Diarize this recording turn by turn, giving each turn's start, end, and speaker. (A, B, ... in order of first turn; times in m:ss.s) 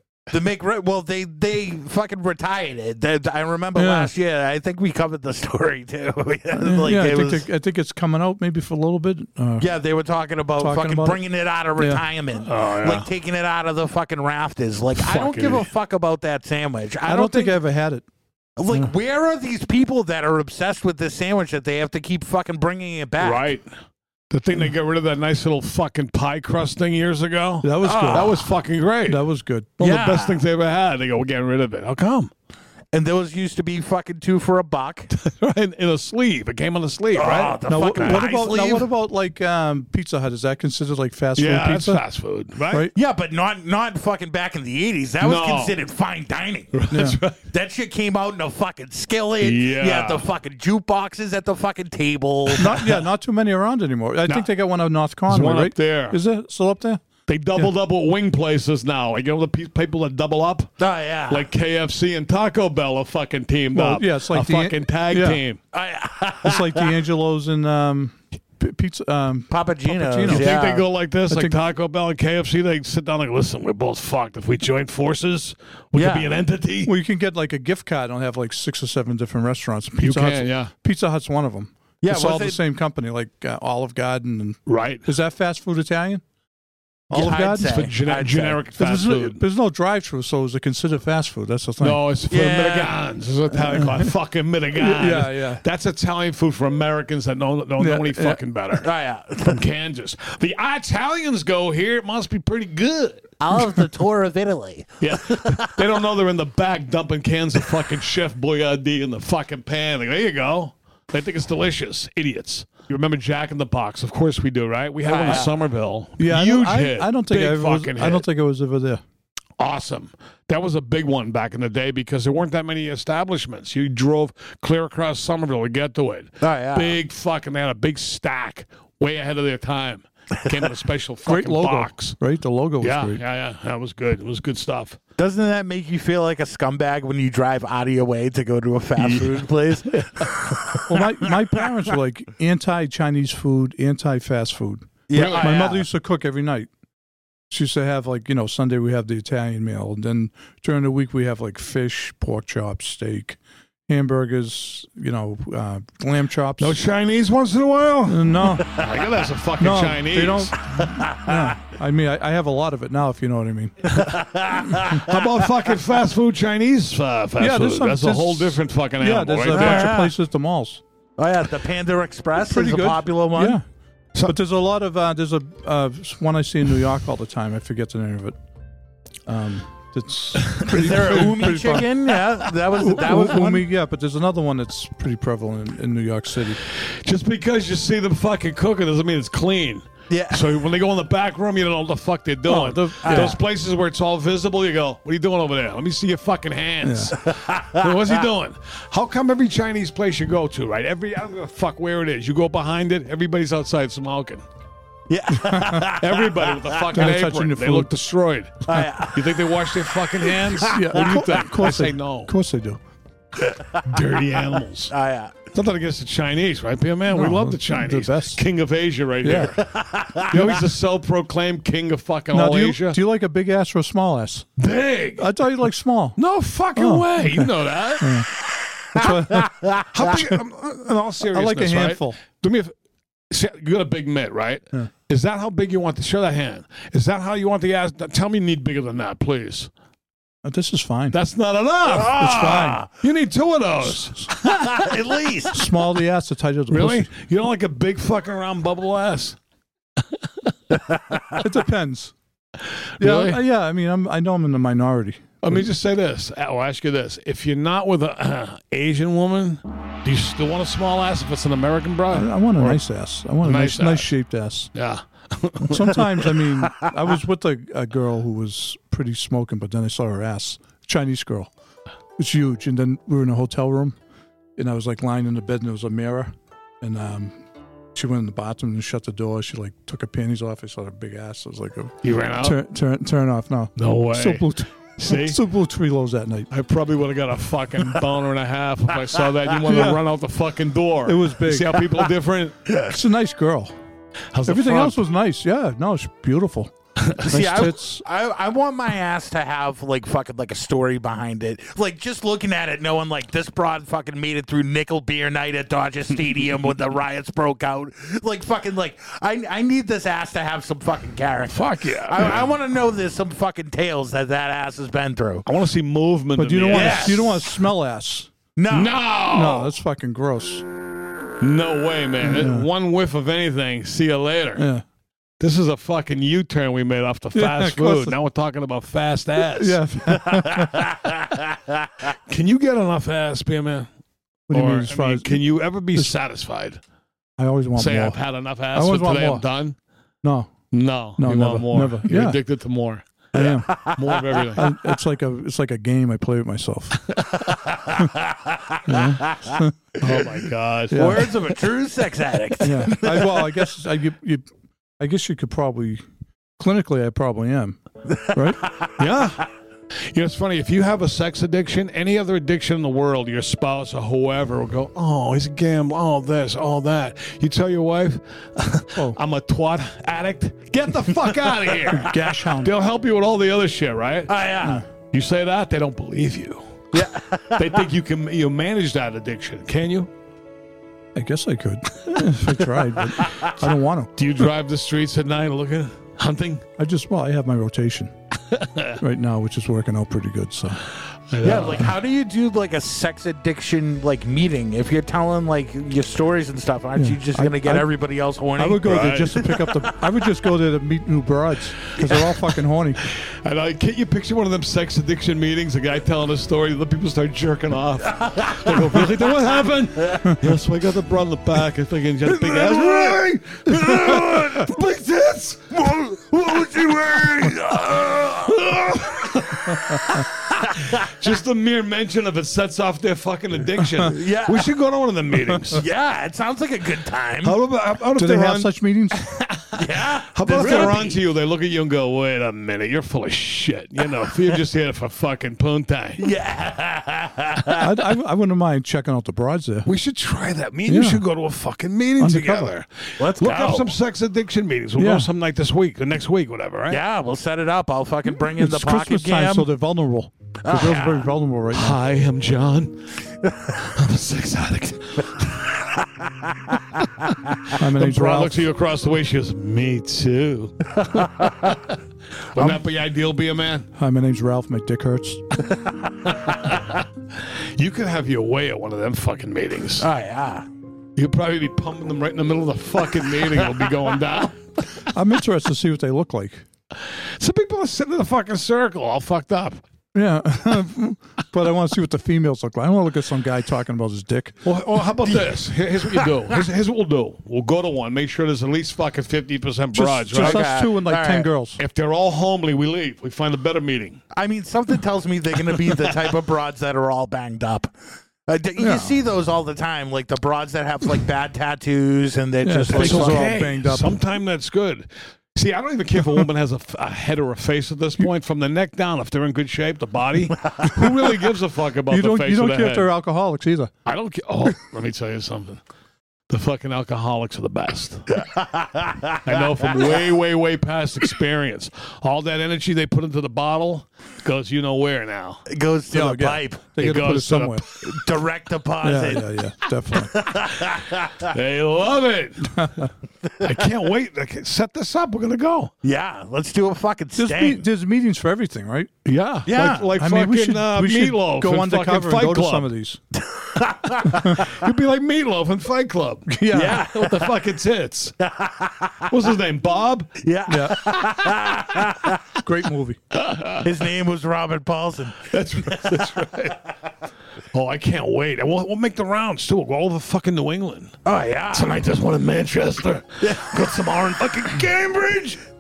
0:00.3-0:07.4 A
0:03.7-0:04.1 B
0:06.5-0:09.7 B
0:09.6-0:17.6 A
0:10.6-0:11.2 B
0:11.8-0:12.0 B
0:12.4-0:13.1 C
0:15.0-0:15.7 C
0:17.0-0:18.0 B
0:18.6-0:23.4 A
0:23.2-0:23.7 C
0:24.3-0:29.2 C
0:27.6-0:28.3 B
0:27.8-0:28.4 A
0:29.1-0:29.8 B
0:29.8-0:32.3 C
0:29.8-0:30.4 A
0:32.9-0:35.1 A
0:35.1-0:38.2 C
0:37.1-0:38.9 A
0:37.7-0:42.0 B
0:41.4-0:42.8 C
0:42.6-0:42.9 B
0:42.9-0:46.8 A
0:45.2-0:45.8 C
0:46.7-0:47.4 C
0:46.9-0:47.2 B
0:47.5-0:52.7 A
0:49.4-0:50.2 C
0:52.5-0:53.0 C
0:52.6-0:57.0 B
0:55.2-0:56.2 C
0:57.3-1:00.7 C
1:00.8-1:01.5 A
1:01.3-1:05.6 C
1:03.7-1:05.4 B
1:05.7-1:06.9 A
1:06.4-1:10.6 B
1:09.5-1:10.9 A
1:10.3-1:16.9 C
1:11.3-1:11.6 B
1:15.9-1:16.3 A
1:16.8-1:26.2 B
1:20.0-1:20.7 C
1:22.0-1:22.6 A
1:24.7-1:25.1 C
1:27.1-1:27.8 B
1:27.1-1:28.6 A
1:27.1-1:29.4 C
1:28.8-1:32.0 B
1:31.8-1:38.9 C
1:32.3-1:32.9 A
1:33.5-1:34.1 B
1:34.7-1:35.6 B
1:37.8-1:38.4 B
1:38.8-1:39.6 A
1:39.4-1:43.2 C
1:43.4-1:45.8 A
1:45.0-1:58.2 C
1:55.0-1:55.5 A
1:56.2-1:59.0 B
1:59.6-2:12.2 C
2:06.4-2:07.0 A
2:11.2-2:13.2 B
2:12.8-2:15.0 C
2:15.2-2:21.0 A
2:19.0-2:20.3 C
2:20.9-2:26.7 B
2:25.1-2:25.8 A
2:25.1-2:25.5 C
2:27.5-2:36.8 B
2:36.6-2:40.5 C
2:38.1-2:38.7 B
2:39.6-2:44.0 B
2:41.0-2:41.5 A
2:43.9-2:45.3 A
2:44.8-2:49.9 C
2:47.4-2:50.8 B
2:49.5-2:50.1 A
2:51.2-2:53.6 A
2:52.4-2:53.6 B
2:54.2-2:58.4 B
2:59.3-3:01.9 B
3:00.5-3:00.8 C
3:00.6-3:03.6 A
3:02.8-3:06.6 B
3:06.7-3:24.4 C
3:10.1-3:10.6 A
3:12.4-3:13.4 B
3:13.0-3:13.4 A
3:16.8-3:17.1 B
3:17.2-3:17.9 A
3:25.1-3:26.8 A
3:25.4-3:25.9 B
3:25.9-3:32.3 C
3:26.9-3:27.9 B
3:28.7-3:29.3 A
3:30.2-3:31.0 A
3:30.6-3:32.8 B
3:33.5-3:34.9 C
3:33.5-3:33.8 A
3:34.9-3:35.3 A
3:35.5-3:39.6 C
3:37.1-3:38.4 B
3:39.2-3:39.6 B
3:39.4-3:40.4 A
3:40.3-3:43.0 C
3:40.3-3:40.6 B
3:42.3-3:44.5 B
3:44.6-3:45.3 C
3:45.2-3:46.2 B
3:46.2-3:48.2 C
3:46.7-3:48.3 B
3:48.9-3:49.5 B
3:49.0-3:49.8 A
3:49.9-3:52.7 C
3:51.3-3:52.2 B
3:53.3-3:59.7 C
4:00.4-4:01.2 B
4:01.1-4:04.7 C
4:01.9-4:02.8 A
4:02.1-4:02.8 B
4:03.8-4:04.3 B
4:04.4-4:05.6 A
4:05.5-4:07.1 B
4:06.7-4:09.4 C
4:10.9-4:11.4 A
4:11.4-4:12.1 B
4:13.0-4:13.4 C
4:13.0-4:15.7 B
4:15.4-4:22.8 C
4:22.1-4:24.7 B
4:23.4-4:24.1 C
4:24.7-4:26.1 C
4:25.7-4:31.5 B
4:32.2-4:34.0 B
4:34.6-4:37.4 B
4:37.9-4:46.5 B
4:42.0-4:42.6 C
4:43.8-4:45.4 C
4:46.5-4:52.7 C
4:49.6-4:50.0 B
4:51.0-4:51.8 B
4:52.9-4:53.7 B
4:54.3-4:55.0 C
4:54.4-4:58.0 B
4:57.3-5:15.5 A
5:11.5-5:12.5 C
5:15.4-5:17.2 C
5:16.4-5:18.3 B
5:16.7-5:17.4 A
5:18.6-5:19.0 A
5:18.7-5:19.7 C
5:19.3-5:20.6 B
5:21.4-5:24.7 C
5:22.2-5:22.7 B
5:24.6-5:24.8 B
5:25.4-5:29.8 C
5:27.3-5:28.2 B
5:29.4-5:30.8 B
5:32.3-5:33.9 C
5:34.5-5:36.1 B
5:34.5-5:36.8 C
5:37.4-5:39.4 B
5:37.8-5:39.8 C
5:40.2-5:40.6 B
5:40.7-5:44.6 C
5:41.1-5:42.4 B
5:43.3-5:43.7 B
5:43.4-5:44.7 A
5:44.5-5:47.1 B
5:47.1-5:47.4 C
5:47.5-5:48.8 A
5:48.8-5:49.8 B
5:50.0-5:51.5 C
5:50.9-5:51.3 B
5:50.9-5:53.6 A
5:52.6-5:54.4 B
5:55.0-5:56.0 B
5:56.6-5:57.8 B
5:58.1-5:58.9 A
5:58.3-5:58.6 B
5:59.0-5:59.4 C
6:00.1-6:14.4 C
6:11.9-6:12.7 B
6:14.3-6:14.8 A
6:15.1-6:16.7 C
6:16.9-6:17.8 A
6:17.6-6:20.1 C
6:21.1-6:24.4 B
6:23.1-6:23.5 A
6:24.2-6:26.6 C
6:26.8-6:28.1 B
6:28.5-6:29.0 C
6:29.0-6:30.8 B
6:31.3-6:31.9 C
6:31.4-6:39.6 A
6:36.9-6:37.9 B
6:38.6-6:43.0 B
6:38.8-6:39.4 C
6:43.4-7:00.2 C
6:48.2-6:49.0 A
6:52.4-6:53.2 A
6:54.0-6:54.6 A
6:55.8-6:59.1 A
7:00.6-7:00.9 A
7:00.7-7:05.8 C
7:04.0-7:04.7 A
7:05.7-7:07.6 A
7:07.4-7:16.2 C
7:08.2-7:09.3 B
7:09.7-7:11.2 A
7:10.6-7:11.0 B
7:16.2-7:17.9 A
7:17.8-7:19.9 B
7:19.8-7:27.0 C
7:20.9-7:21.2 B
7:22.2-7:22.7 B
7:23.2-7:23.9 A
7:25.0-7:25.3 B
7:26.9-7:29.7 A
7:28.4-7:32.0 B
7:30.6-7:31.3 A
7:31.7-7:33.1 C
7:33.8-7:35.6 C
7:37.8-7:38.7 B
7:37.9-7:41.9 C
7:41.0-7:41.7 A
7:42.5-7:43.9 C
7:42.6-7:42.8 A
7:44.0-7:45.4 B
7:45.8-7:46.5 A
7:46.5-7:50.1 C
7:50.0-7:50.6 A
7:51.2-7:54.6 C
7:55.1-7:56.6 B
7:57.0-7:59.8 C
8:00.1-8:04.7 B
8:04.6-8:10.7 C
8:09.9-8:11.8 B
8:10.3-8:11.5 A
8:11.8-8:14.2 C
8:14.3-8:17.9 A
8:18.5-8:23.6 A
8:18.8-8:19.1 B
8:22.6-8:24.2 B
8:22.9-8:33.1 C
8:30.6-8:31.0 A
8:32.1-8:33.9 B
8:34.0-8:35.8 C
8:36.5-8:38.3 C
8:38.3-8:40.3 A
8:39.4-8:45.6 C
8:45.7-8:46.8 A
8:46.1-8:47.8 B
8:47.0-8:47.8 C
8:48.0-8:49.5 A
8:49.0-8:50.4 B
8:50.3-8:51.5 A
8:51.4-8:52.9 C
8:52.7-8:53.1 B
8:53.6-8:55.9 C
8:56.0-8:57.8 A
8:57.4-8:59.1 B
8:59.2-9:02.9 C
8:59.6-9:00.1 A
9:00.0-9:03.2 B
9:03.5-9:04.6 A
9:04.4-9:08.3 C
9:06.5-9:07.1 B
9:06.7-9:07.5 A
9:08.4-9:09.3 A
9:09.3-9:10.3 C
9:10.4-9:12.4 A
9:10.7-9:11.2 B
9:12.5-9:13.2 B
9:13.3-9:13.9 C
9:13.8-9:16.3 A
9:15.4-9:16.8 C
9:17.7-9:21.2 C
9:21.2-9:22.1 A
9:21.7-9:25.6 C
9:23.4-9:23.9 A